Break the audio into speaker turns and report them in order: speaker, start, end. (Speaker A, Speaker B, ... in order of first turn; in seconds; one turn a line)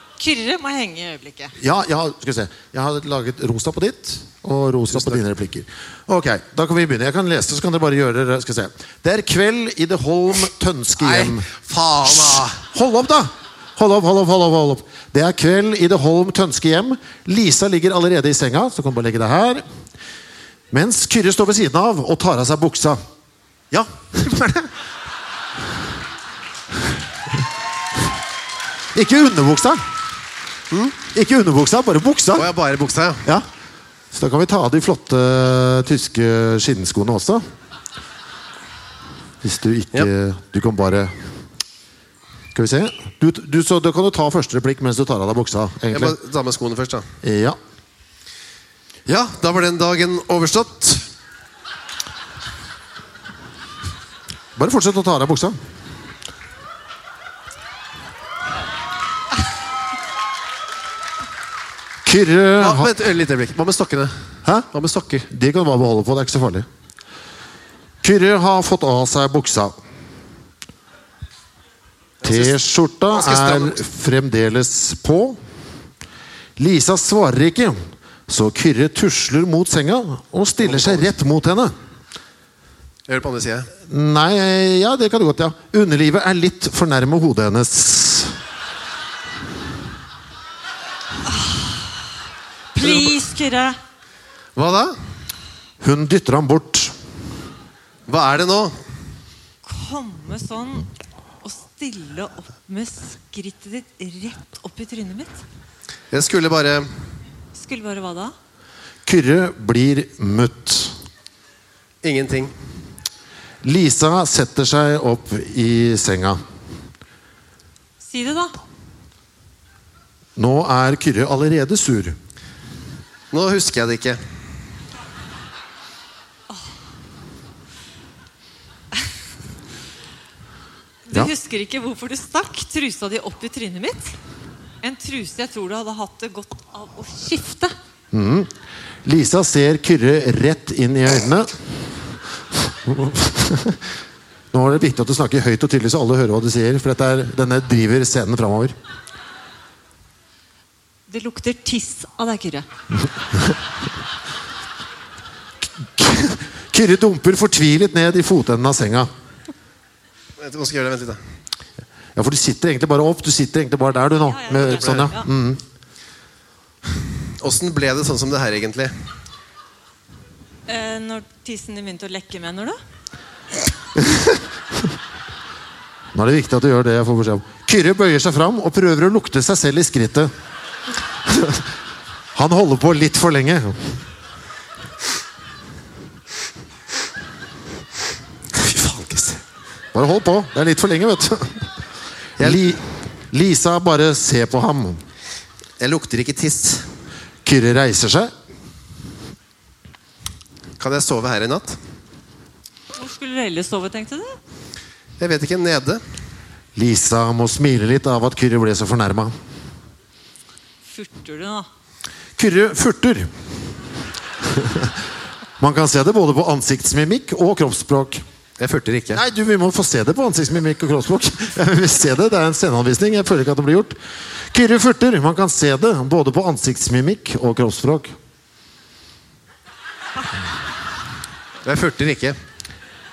Speaker A: 0.2-1.5
Speaker B: 1.6-11.5
Speaker C: 4.9-5.2
Speaker C: 11.0-12.6
Speaker B: 12.0-19.6
Speaker B: 20.7-23.0
Speaker B: 23.7-24.7
Speaker B: 28.9-29.8
Speaker C: 30.7-31.0
Speaker B: 31.1-32.5
Speaker C: 32.3-33.3
Speaker B: 34.1-37.4
Speaker B: 39.4-41.3
Speaker B: 42.5-46.2
Speaker C: 45.9-47.1
Speaker B: 47.2-47.6
Speaker C: 49.1-51.1
Speaker B: 54.5-55.6
Speaker B: 62.0-62.9
Speaker C: 62.6-65.3
Speaker B: 65.3-66.7
Speaker B: 68.0-69.8
Speaker C: 72.2-72.5
Speaker B: 72.2-75.4
Speaker C: 73.1-73.8
Speaker B: 76.6-81.7
Speaker C: 80.6-81.0
Speaker C: 83.1-83.7
Speaker B: 83.8-88.4
Speaker A: 91.3-91.6
Speaker A: 92.7-93.8
Speaker C: 92.8-93.1
Speaker C: 94.5-94.9
Speaker B: 95.8-96.9
Speaker C: 98.1-98.8
Speaker A: 99.6-100.9
Speaker A: 101.4-105.4
Speaker C: 106.1-106.9
Speaker A: 107.5-108.3
Speaker B: 109.0-111.0
Speaker C: 112.0-112.5
Speaker B: 113.6-116.4
Speaker A: 118.0-118.6
Speaker B: 120.3-122.2
Speaker C: 123.3-124.2
Speaker A: 131.1-134.2
Speaker A: 134.8-137.7
Speaker B: 138.1-138.5
Speaker B: 139.0-141.8
Speaker B: 142.5-143.9
Speaker B: 144.5-148.8
Speaker A: 151.1-152.7
Speaker B: 155.8-159.1
Speaker C: 160.4-161.2
Speaker B: 162.1-165.6
Speaker A: 164.2-165.2
Speaker C: 164.7-165.1
Speaker C: 167.4-168.9
Speaker A: 170.7-172.8
Speaker B: 173.9-174.4
Speaker B: 176.1-180.3
Speaker B: 181.2-181.7
Speaker B: 182.3-184.0
Speaker C: 188.5-189.4
Speaker B: 189.9-191.7
Speaker B: 192.4-195.0
Speaker C: 195.8-196.8
Speaker B: 197.4-198.3
Speaker C: 200.8-201.8
Speaker A: 202.9-204.4
Speaker C: 205.2-206.0
Speaker B: 206.7-209.3
Speaker A: 210.9-211.7
Speaker B: 212.4-213.3
Speaker B: 214.4-215.0
Speaker B: 215.6-218.2
Speaker C: 218.6-219.2
Speaker B: 219.1-224.0
Speaker B: 224.5-228.1
Speaker C: 231.6-232.3